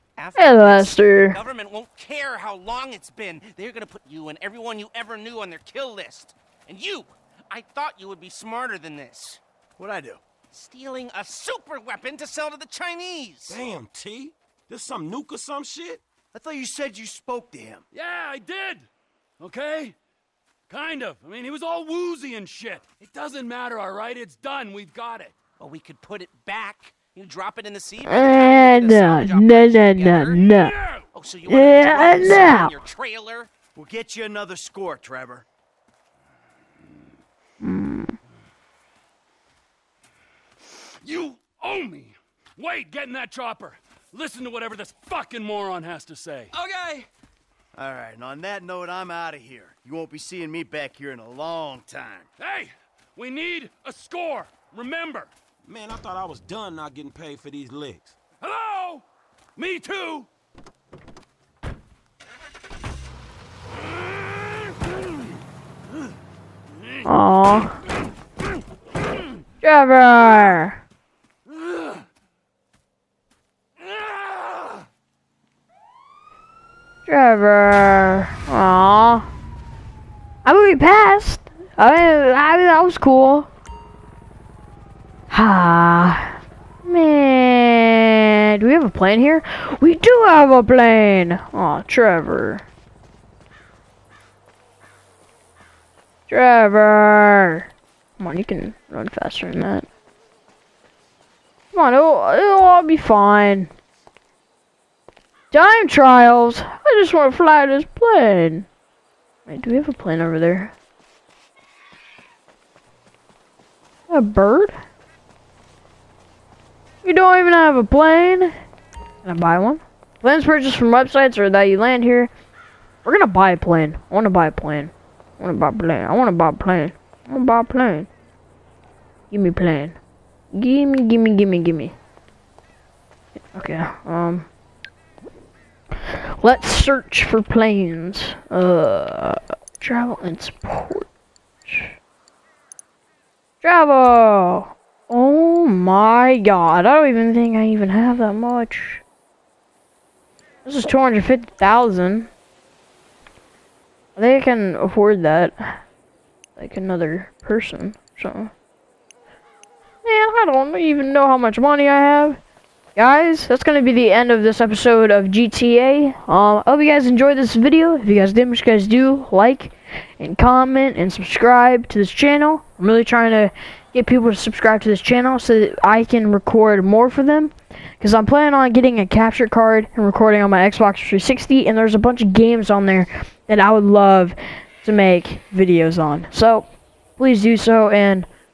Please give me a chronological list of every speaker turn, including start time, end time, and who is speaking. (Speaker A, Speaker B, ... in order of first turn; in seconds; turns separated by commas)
Speaker A: 0.2-9.4, Speaker B: 0.3-1.4, Speaker C: 9.8-10.2, Speaker A: 10.5-13.6, Speaker D: 13.5-16.0, Speaker C: 16.3-17.8, Speaker E: 17.9-18.9, Speaker E: 19.4-19.9, Speaker E: 20.7-25.3, Speaker A: 25.6-30.4, Speaker B: 28.0-30.7, Speaker E: 30.4-31.1, Speaker A: 31.1-33.5, Speaker B: 31.5-32.7, Speaker C: 33.7-35.4, Speaker B: 37.6-38.1, Speaker E: 41.0-47.1, Speaker C: 47.7-52.3, Speaker E: 52.4-55.3, Speaker D: 55.6-58.1, Speaker E: 58.4-59.0, Speaker E: 59.6-60.3, Speaker B: 67.0-67.8, Speaker B: 69.6-70.8, Speaker E: 71.5-72.0, Speaker E: 73.8-74.8, Speaker B: 77.0-79.3, Speaker B: 80.4-83.5, Speaker B: 85.3-92.6, Speaker B: 96.3-97.7, Speaker B: 98.2-99.9, Speaker B: 101.7-103.7, Speaker B: 105.5-108.7, Speaker B: 109.5-110.7, Speaker B: 114.1-114.7, Speaker B: 117.0-118.5, Speaker B: 119.2-122.3, Speaker B: 123.0-128.1, Speaker B: 129.3-129.9, Speaker B: 130.5-131.9, Speaker B: 133.5-134.5, Speaker B: 136.1-141.1, Speaker B: 143.6-149.0, Speaker B: 150.7-152.3, Speaker B: 154.2-155.8, Speaker B: 156.6-158.5, Speaker B: 160.0-162.4, Speaker B: 162.9-186.6, Speaker B: 187.2-188.2